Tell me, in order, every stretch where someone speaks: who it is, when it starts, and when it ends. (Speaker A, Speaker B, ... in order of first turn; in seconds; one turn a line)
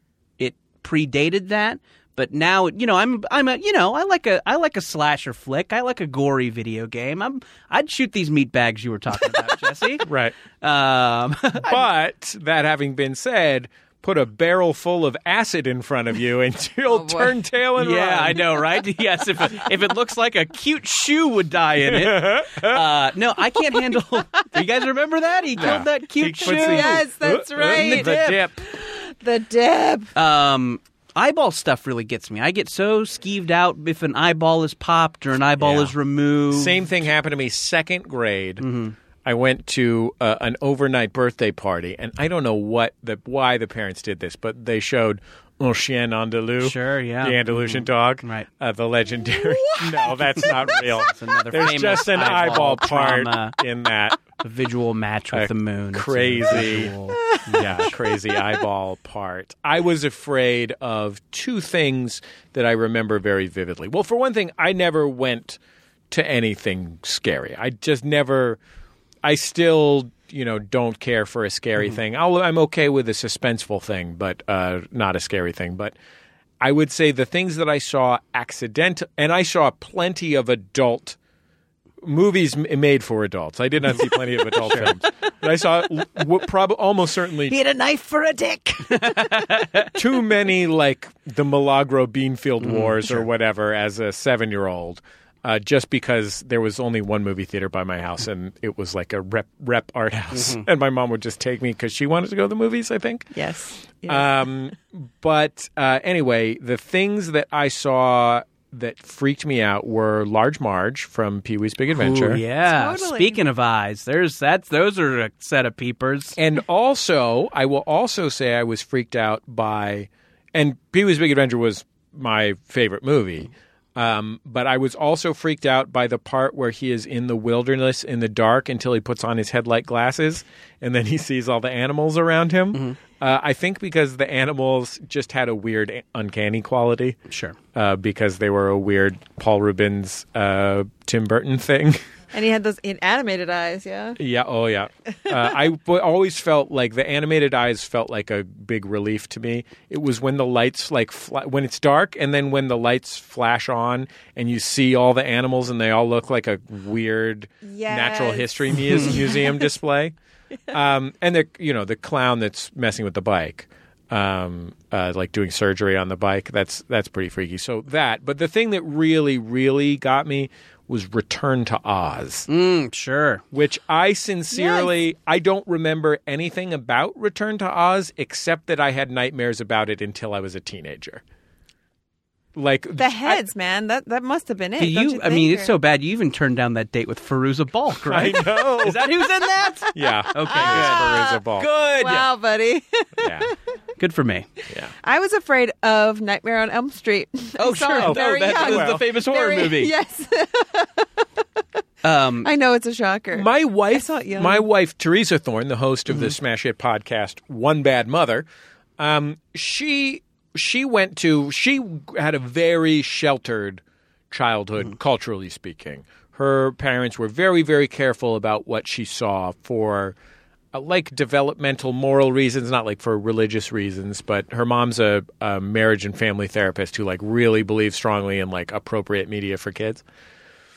Speaker A: 0.4-10.1
Speaker B: 10.0-10.3
Speaker A: 10.6-11.9
Speaker B: 11.6-18.6
Speaker C: 16.9-17.3
Speaker A: 17.8-27.0
Speaker B: 21.8-22.8
Speaker B: 25.5-28.6
Speaker C: 26.4-28.1
Speaker A: 27.7-28.4
Speaker C: 28.7-30.1
Speaker A: 30.1-36.9
Speaker B: 35.6-35.9
Speaker B: 36.5-38.6
Speaker A: 38.6-38.9
Speaker B: 39.2-54.2
Speaker A: 46.6-48.5
Speaker A: 50.7-53.6
Speaker A: 54.4-57.9
Speaker B: 55.3-56.9
Speaker B: 57.5-65.6
Speaker B: 66.1-68.6
Speaker B: 69.2-76.0
Speaker B: 76.6-81.2
Speaker B: 82.0-87.5
Speaker A: 84.5-84.9
Speaker C: 87.5-89.1
Speaker A: 88.9-89.9
Speaker B: 89.9-103.3
Speaker A: 92.6-93.2
Speaker A: 100.3-100.6
Speaker C: 103.3-104.5
Speaker B: 104.1-112.4
Speaker A: 111.9-116.4
Speaker C: 112.7-113.4
Speaker B: 116.4-137.2
Speaker A: 137.3-137.6
Speaker B: 137.7-142.0
Speaker C: 142.3-144.2
Speaker B: 144.2-160.1
Speaker C: 157.6-159.7
Speaker A: 158.8-159.2
Speaker B: 160.7-172.5
Speaker A: 172.5-173.4
Speaker B: 173.5-181.2
Speaker C: 174.5-174.9
Speaker B: 182.5-183.4
Speaker C: 183.0-185.7
Speaker A: 184.8-192.3
Speaker B: 188.1-189.1
Speaker B: 189.9-191.7
Speaker C: 190.2-191.4
Speaker C: 192.0-193.5
Speaker B: 193.2-193.5
Speaker A: 194.0-194.5
Speaker C: 195.0-201.1
Speaker A: 197.6-199.9
Speaker B: 198.0-199.1
Speaker A: 202.0-202.5
Speaker C: 202.4-204.6
Speaker B: 203.3-208.5
Speaker B: 209.0-220.2
Speaker B: 220.7-230.0